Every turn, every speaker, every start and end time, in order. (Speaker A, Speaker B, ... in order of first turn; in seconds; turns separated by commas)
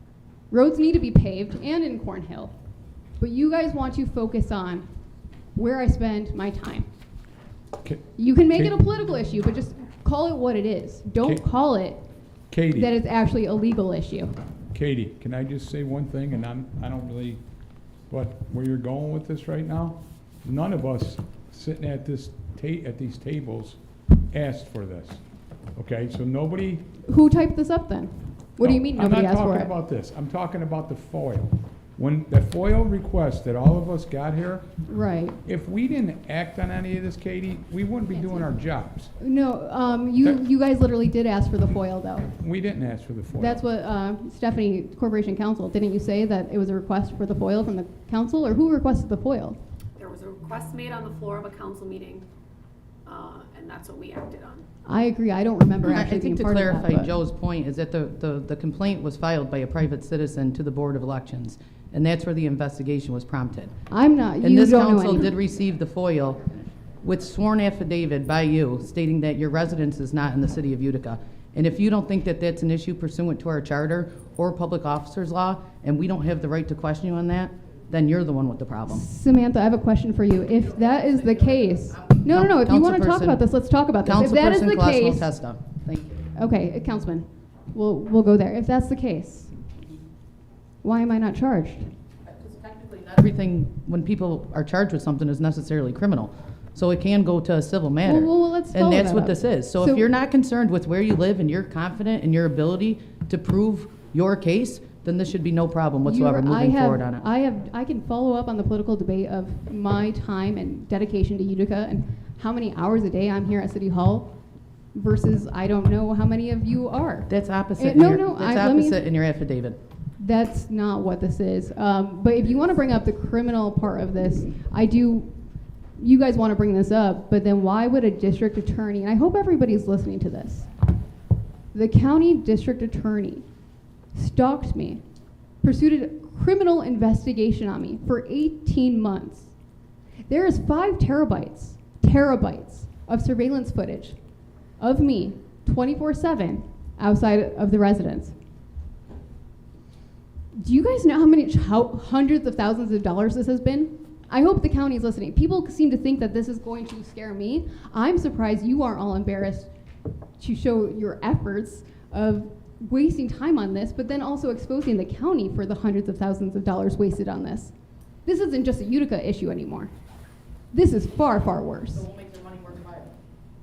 Speaker A: 0.5-2.5, Speaker A: 3.2-4.8, Speaker A: 5.6-6.9, Speaker B: 7.8-8.7, Speaker A: 8.2-12.0, Speaker B: 12.5-12.9, Speaker A: 12.7-14.3, Speaker B: 14.7-17.4, Speaker B: 18.1-23.8, Speaker B: 24.3-25.2, Speaker B: 25.8-26.8, Speaker A: 27.1-29.7, Speaker B: 28.6-34.7, Speaker A: 34.9-35.4, Speaker B: 35.5-39.1, Speaker A: 38.1-38.6, Speaker A: 39.2-42.3, Speaker B: 42.4-43.6, Speaker A: 43.3-49.6, Speaker C: 50.0-52.3, Speaker C: 53.1-54.6, Speaker A: 54.9-57.2, Speaker D: 55.8-63.7, Speaker A: 63.9-65.3, Speaker D: 64.4-79.0, Speaker A: 78.9-85.3, Speaker D: 80.6-83.5, Speaker D: 84.0-86.2, Speaker A: 86.3-89.5, Speaker A: 90.8-91.9, Speaker D: 92.3-107.2, Speaker A: 98.0-100.1, Speaker A: 106.0-114.3, Speaker A: 115.0-119.0, Speaker D: 117.3-119.8, Speaker A: 120.2-125.3, Speaker A: 126.0-130.7, Speaker A: 131.7-133.4, Speaker A: 134.1-135.0, Speaker A: 135.6-139.5, Speaker A: 140.3-144.2, Speaker A: 144.8-148.3, Speaker A: 150.6-159.7, Speaker A: 160.4-167.7, Speaker A: 168.2-169.9, Speaker A: 170.7-172.1, Speaker D: 171.9-173.2